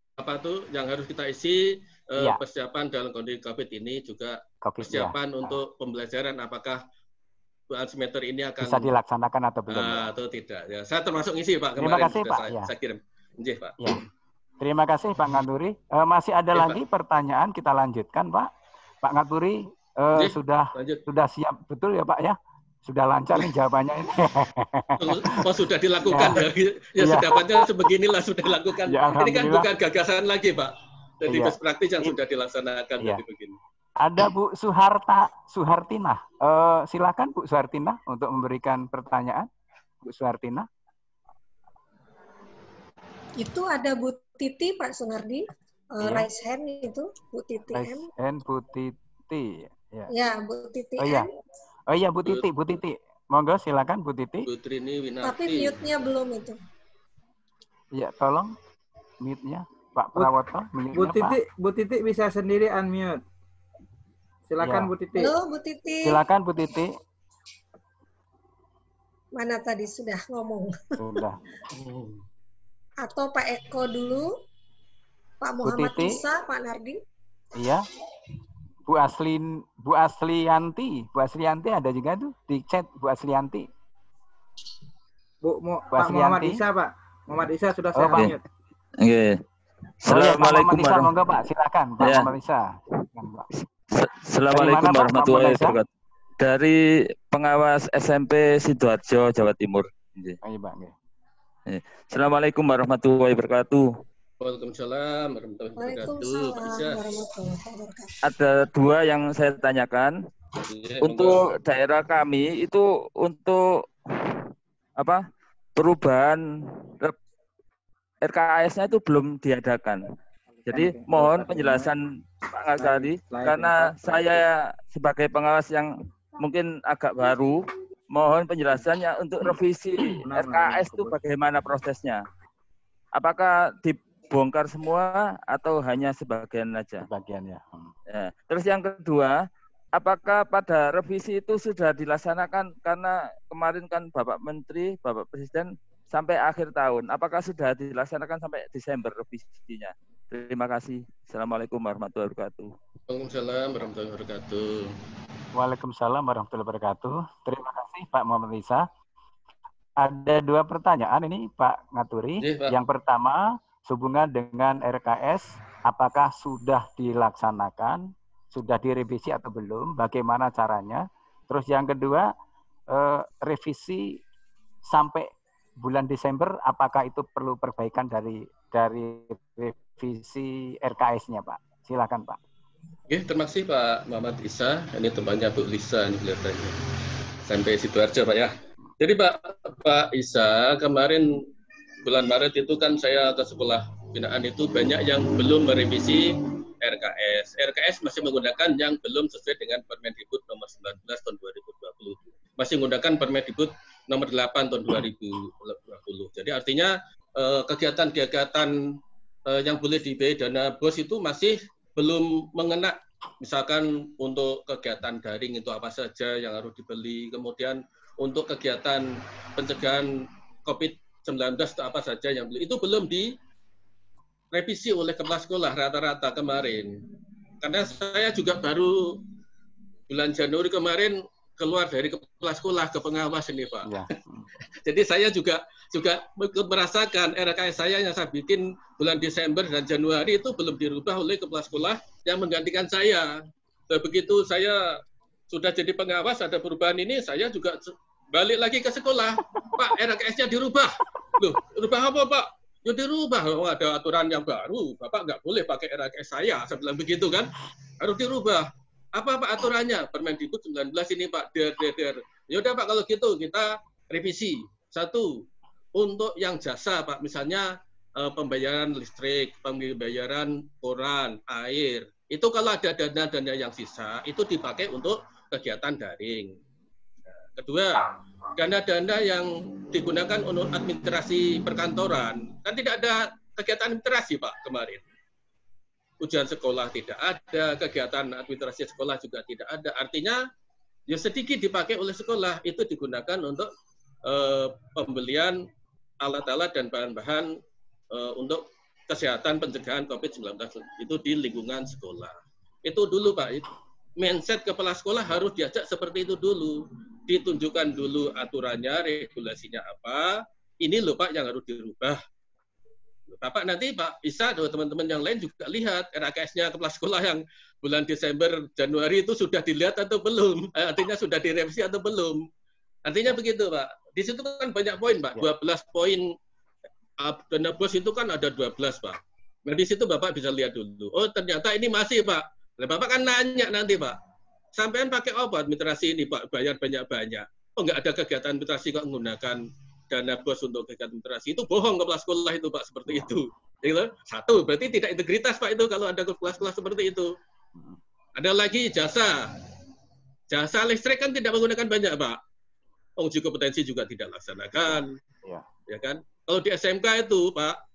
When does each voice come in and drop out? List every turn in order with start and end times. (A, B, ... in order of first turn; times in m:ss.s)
0:00.2-0:06.8 A
0:04.6-0:05.6 B
0:07.7-0:09.0 A
0:08.6-0:10.1 B
0:09.7-0:14.1 A
0:11.8-0:12.7 B
0:14.6-0:18.5 B
0:16.5-0:16.8 A
0:19.0-0:25.4 B
0:20.1-0:21.0 A
0:25.0-0:33.6 A
0:26.1-0:26.4 B
0:27.0-0:27.6 B
0:28.9-0:29.7 B
0:31.3-0:32.2 B
0:34.0-0:39.5 B
0:40.0-0:40.7 B
0:43.4-0:45.4 C
0:46.0-0:48.1 C
0:46.0-0:46.3 B
0:47.7-0:50.1 B
0:50.1-0:51.3 C
0:51.0-0:51.3 B
0:51.9-0:54.5 B
0:54.4-0:55.9 A
0:55.2-0:56.6 C
0:58.0-0:58.5 B
0:59.2-1:01.4 B
1:00.9-1:03.2 D
1:04.5-1:05.3 D
1:04.6-1:04.9 B
1:05.2-1:06.2 C
1:06.0-1:06.9 B
1:09.4-1:10.8 C
1:11.0-1:11.4 B
1:11.7-1:12.2 A
1:13.0-1:14.3 C
1:15.4-1:17.0 C
1:15.6-1:16.2 B
1:17.6-1:17.9 B
1:18.9-1:23.7 B
1:25.4-1:28.4 D
1:25.9-1:26.6 B
1:28.0-1:28.4 B
1:29.0-1:29.4 E
1:30.0-1:31.1 E
1:30.1-1:33.5 B
1:32.0-1:32.3 E
1:33.9-1:35.9 E
1:34.5-1:35.8 B
1:36.4-1:36.8 E
1:37.3-1:40.4 E
1:40.4-1:40.9 B
1:41.7-1:43.9 E
1:44.4-1:47.0 A
1:45.8-1:48.1 C
1:48.2-1:50.2 E
1:50.7-1:51.5 A
1:51.0-1:53.6 E
1:55.0-1:55.2 E
1:55.8-1:56.4 E
1:58.2-2:00.0 E
2:00.7-2:01.9 D
2:00.7-2:12.2 E
2:02.8-2:03.9 D
2:10.2-2:11.2 D
2:13.2-2:17.1 E
2:17.0-2:17.9 B
2:18.1-2:19.4 E
2:19.9-2:32.7 E
2:33.1-2:34.9 A
2:35.5-2:38.8 B
2:40.0-2:48.0 B
2:42.4-2:42.7 A
2:48.5-2:52.3 B
2:52.9-2:54.2 B
2:54.9-2:55.3 B
2:55.8-3:02.4 B
3:03.1-3:06.8 A
3:07.5-3:11.3 A
3:12.0-3:28.8 A
3:29.5-3:40.1 A
3:40.6-3:43.3 A
3:44.5-3:47.0 A
3:47.6-3:49.2 A
3:50.1-3:53.9 A
3:53.8-3:54.5 B
3:54.8-4:03.4 A
4:03.9-4:36.6 A
4:37.5-4:45.0 A
4:46.2-4:50.4 A
4:51.1-4:53.7 A
4:54.2-4:55.6 A
4:56.2-4:57.6 A
4:58.1-5:12.2 A
5:13.3-5:22.4 A
5:23.0-5:26.3 A
5:27.2-5:34.2 A
5:34.8-5:47.3 A
5:48.4-5:49.5 A
5:50.5-5:52.4 A
5:53.2-5:55.1 A
5:55.9-5:57.8 A